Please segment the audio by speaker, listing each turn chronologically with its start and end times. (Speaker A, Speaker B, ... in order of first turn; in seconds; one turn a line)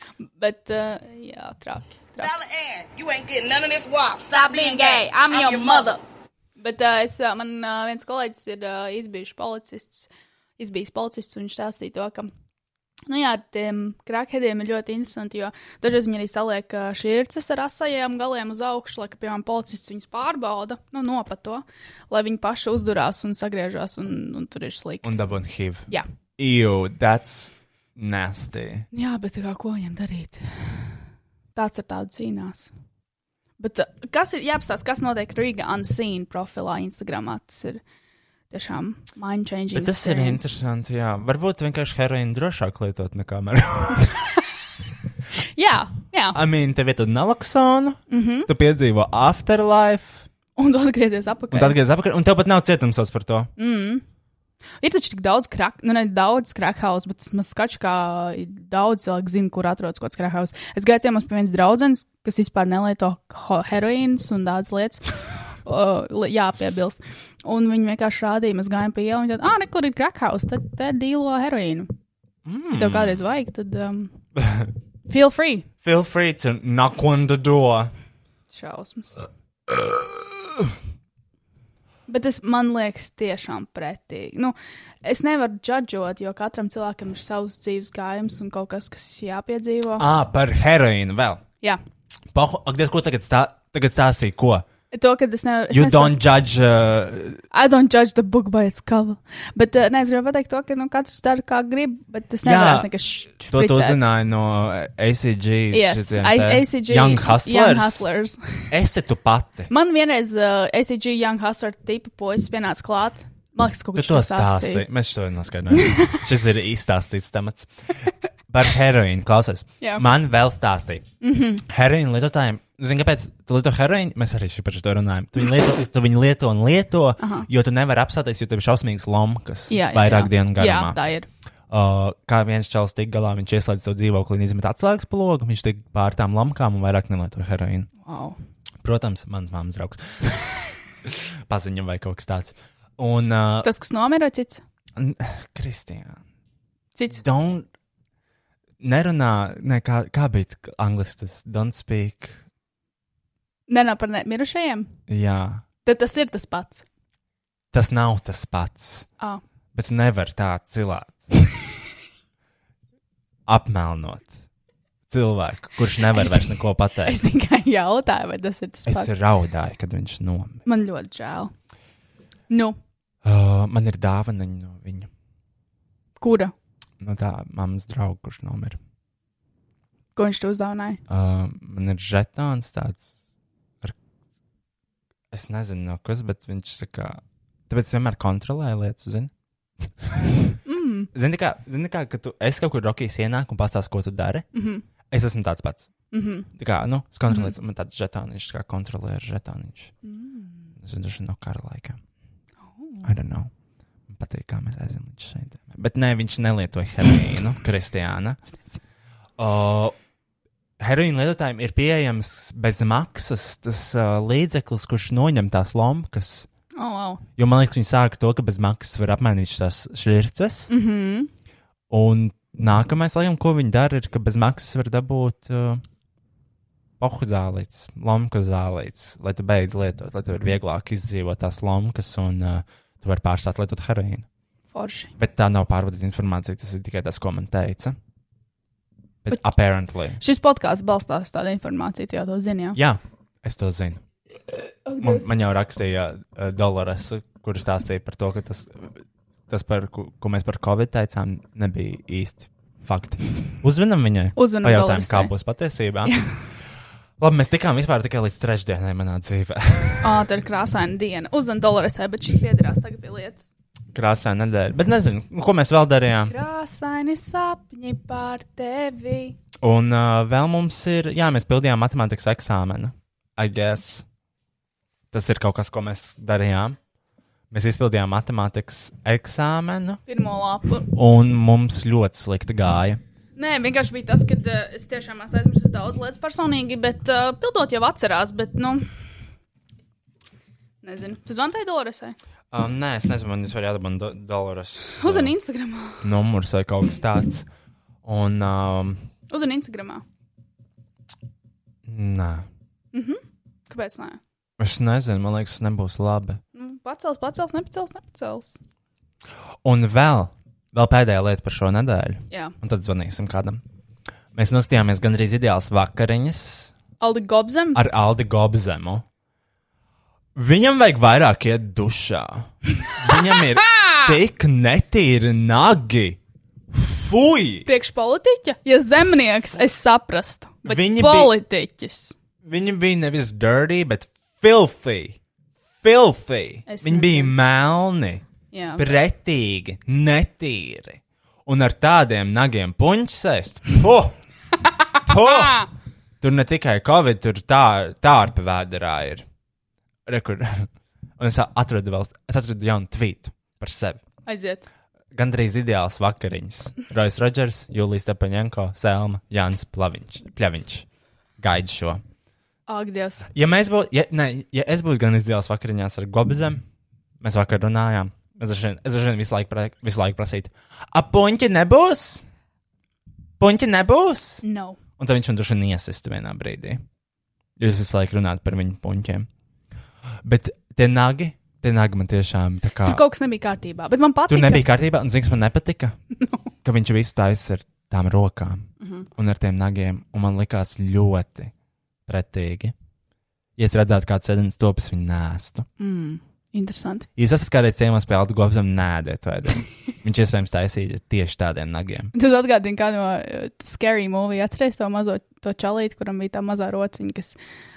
Speaker A: 0.3-2.3
Speaker B: 2.2-6.0
Speaker A: 4.3-6.0
Speaker A: 6.6-12.3
Speaker A: 13.1-25.1
Speaker C: 25.0-28.9
Speaker A: 28.9-30.9
Speaker A: 31.6-32.7
Speaker A: 33.6-37.8
Speaker A: 38.5-40.5
Speaker C: 39.7-44.3
Speaker A: 45.5-46.4
Speaker C: 46.3-50.2
Speaker A: 48.1-48.5
Speaker A: 50.6-51.8
Speaker C: 51.5-53.5
Speaker A: 53.6-54.0
Speaker A: 54.8-65.0
Speaker A: 65.7-71.9
Speaker C: 72.5-73.2
Speaker A: 72.7-74.1
Speaker C: 74.4-74.7
Speaker A: 75.1-75.7
Speaker C: 75.8-77.9
Speaker A: 78.5-79.2
Speaker A: 82.1-90.1
Speaker C: 90.0-91.4
Speaker C: 92.3-94.7
Speaker A: 94.9-96.2
Speaker C: 95.7-97.4
Speaker A: 97.5-104.0
Speaker C: 102.4-108.0
Speaker A: 105.7-108.7
Speaker C: 108.7-109.7
Speaker A: 109.7-114.9
Speaker C: 114.0-117.7
Speaker A: 115.8-116.2
Speaker C: 118.5-121.1
Speaker A: 121.2-121.6
Speaker C: 121.7-131.0
Speaker A: 127.2-127.5
Speaker A: 129.7-131.3
Speaker C: 131.7-137.9
Speaker A: 138.0-138.4
Speaker C: 138.8-143.7
Speaker A: 143.6-144.6
Speaker C: 145.0-146.2
Speaker A: 146.9-147.2
Speaker C: 147.1-147.7
Speaker C: 148.8-152.4
Speaker A: 153.7-154.9
Speaker C: 155.1-155.6
Speaker A: 155.8-156.8
Speaker C: 157.7-159.1
Speaker C: 159.8-161.6
Speaker C: 163.5-164.4
Speaker C: 165.1-167.2
Speaker A: 166.2-166.5
Speaker A: 167.0-169.1
Speaker C: 168.9-170.6
Speaker A: 170.7-171.5
Speaker A: 172.5-172.8
Speaker C: 173.2-175.1
Speaker A: 176.2-176.5
Speaker C: 177.0-178.8
Speaker A: 180.2-181.0
Speaker C: 181.1-183.2
Speaker C: 185.3-189.3
Speaker C: 189.8-190.5
Speaker A: 190.7-191.1
Speaker C: 191.1-194.5
Speaker A: 194.5-194.8
Speaker C: 195.1-195.9
Speaker A: 196.1-196.5
Speaker C: 196.5-199.9
Speaker A: 197.3-197.5
Speaker A: 200.0-200.7
Speaker C: 200.8-202.0
Speaker A: 202.7-203.1
Speaker C: 203.0-203.5
Speaker C: 204.1-208.4
Speaker C: 209.4-209.9
Speaker C: 210.8-216.5
Speaker A: 216.8-217.2
Speaker C: 217.4-220.7
Speaker A: 220.7-221.3
Speaker C: 221.9-225.8
Speaker C: 227.0-234.3
Speaker A: 234.7-235.1
Speaker C: 235.2-238.0
Speaker C: 239.2-240.2
Speaker A: 240.2-242.8
Speaker C: 242.8-244.0
Speaker A: 244.9-245.3
Speaker C: 245.0-249.0
Speaker C: 249.5-256.1
Speaker A: 254.4-255.3
Speaker C: 257.2-260.1
Speaker A: 260.0-263.5
Speaker C: 263.9-266.3
Speaker A: 266.3-269.4
Speaker C: 269.6-274.1
Speaker C: 275.1-276.8
Speaker C: 277.5-280.0
Speaker A: 280.1-280.9
Speaker C: 280.9-283.0
Speaker A: 283.4-288.9
Speaker A: 290.8-292.2
Speaker C: 292.5-295.4
Speaker A: 294.9-296.1
Speaker C: 296.0-297.5
Speaker C: 298.1-299.1
Speaker A: 299.3-300.0
Speaker C: 301.9-302.5
Speaker A: 302.9-304.2
Speaker C: 304.6-306.4
Speaker A: 306.6-308.6
Speaker C: 309.6-313.6
Speaker C: 314.3-316.7
Speaker A: 317.0-317.8
Speaker C: 317.8-319.1
Speaker C: 320.4-326.2
Speaker A: 323.8-324.0
Speaker C: 326.7-327.7
Speaker A: 327.7-332.1
Speaker C: 330.6-331.4
Speaker C: 332.4-335.2
Speaker C: 335.8-338.2
Speaker A: 336.7-337.3
Speaker A: 338.5-339.0
Speaker C: 338.8-344.2
Speaker C: 345.1-345.6
Speaker A: 345.1-345.7
Speaker C: 346.2-349.3
Speaker C: 350.1-350.7
Speaker C: 351.2-354.0
Speaker A: 354.3-354.7
Speaker C: 355.1-360.9
Speaker C: 361.4-362.0
Speaker A: 362.7-363.3
Speaker C: 363.3-366.6
Speaker C: 367.2-372.3
Speaker C: 373.4-374.4
Speaker A: 374.4-374.8
Speaker C: 375.0-376.8
Speaker C: 377.6-379.3
Speaker C: 380.2-383.0
Speaker A: 382.8-384.6
Speaker C: 384.3-386.0
Speaker C: 386.6-391.5
Speaker A: 388.8-389.1
Speaker C: 392.1-392.7
Speaker C: 393.6-395.7
Speaker A: 395.8-397.1
Speaker C: 397.2-402.1
Speaker A: 402.1-407.4